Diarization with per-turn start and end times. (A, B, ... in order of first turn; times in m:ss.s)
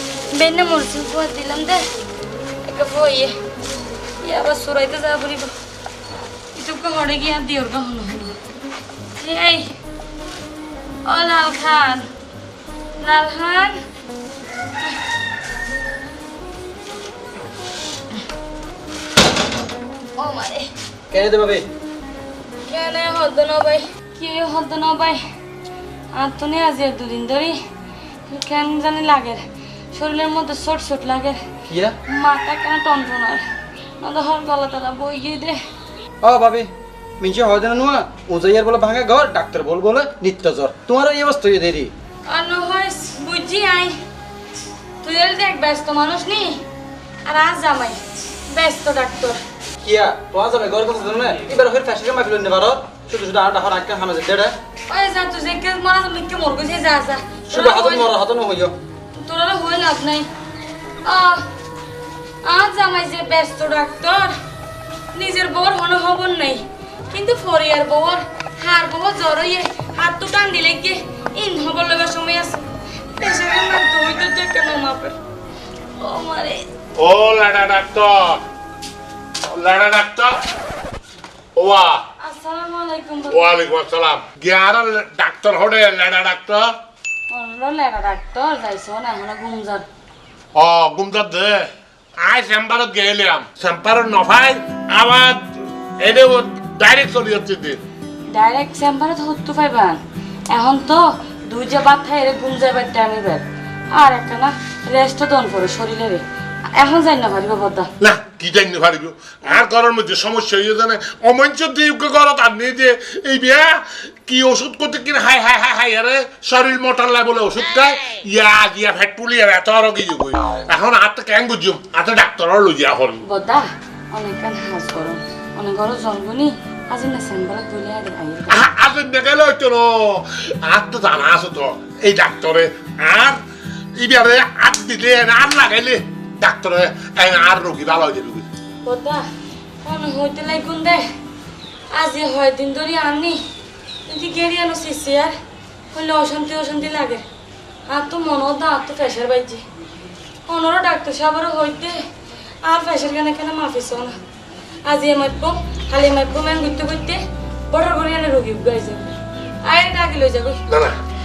0:00.3-0:01.9 A
0:02.6-0:03.4 A
0:04.2-0:05.5 A
0:06.6-0:08.4 A
0:09.2-0:09.7 A
0:11.1-0:12.1 A
0:13.0-0:13.8 A
0:20.2-0:20.7 A
0:21.1-0:21.6 B
0:22.7-0:25.2 A
0:26.1-0:27.6 A
0:28.3-0:29.4 A
0:29.9-0:31.4 A
0:31.7-0:32.0 B
0:32.1-0:33.4 A
0:34.0-0:35.6 A
0:36.2-0:41.9 B
0:42.3-0:44.0 A
0:45.0-0:46.6 A
0:47.2-0:49.4 A
0:49.8-0:54.6 B
0:54.9-0:58.1 A
0:57.5-0:58.8 B
0:59.2-1:00.3 A
1:01.1-1:01.5 A
1:02.4-1:04.3 A
1:05.2-1:12.6 A
1:13.2-1:15.2 A
1:16.0-1:16.6 A
1:17.0-1:18.4 C
1:19.4-1:20.4 C
1:21.6-1:22.0 C
1:22.2-1:23.6 A
1:23.3-1:26.7 C
1:27.3-1:29.9 A
1:30.6-1:37.8 C
1:38.3-1:47.9 A
1:48.0-2:03.2 C
2:03.2-2:08.6 A
2:08.5-2:13.4 C
2:14.0-2:18.5 C
2:18.9-2:19.2 A
2:19.8-2:21.1 A
2:21.9-2:23.4 A
2:24.1-2:25.4 A
2:25.9-2:27.2 A
2:27.9-2:29.6 A
2:30.5-2:32.0 A
2:32.6-2:34.2 A
2:34.9-2:39.1 A
2:39.7-2:40.6 A
2:40.7-2:41.0 C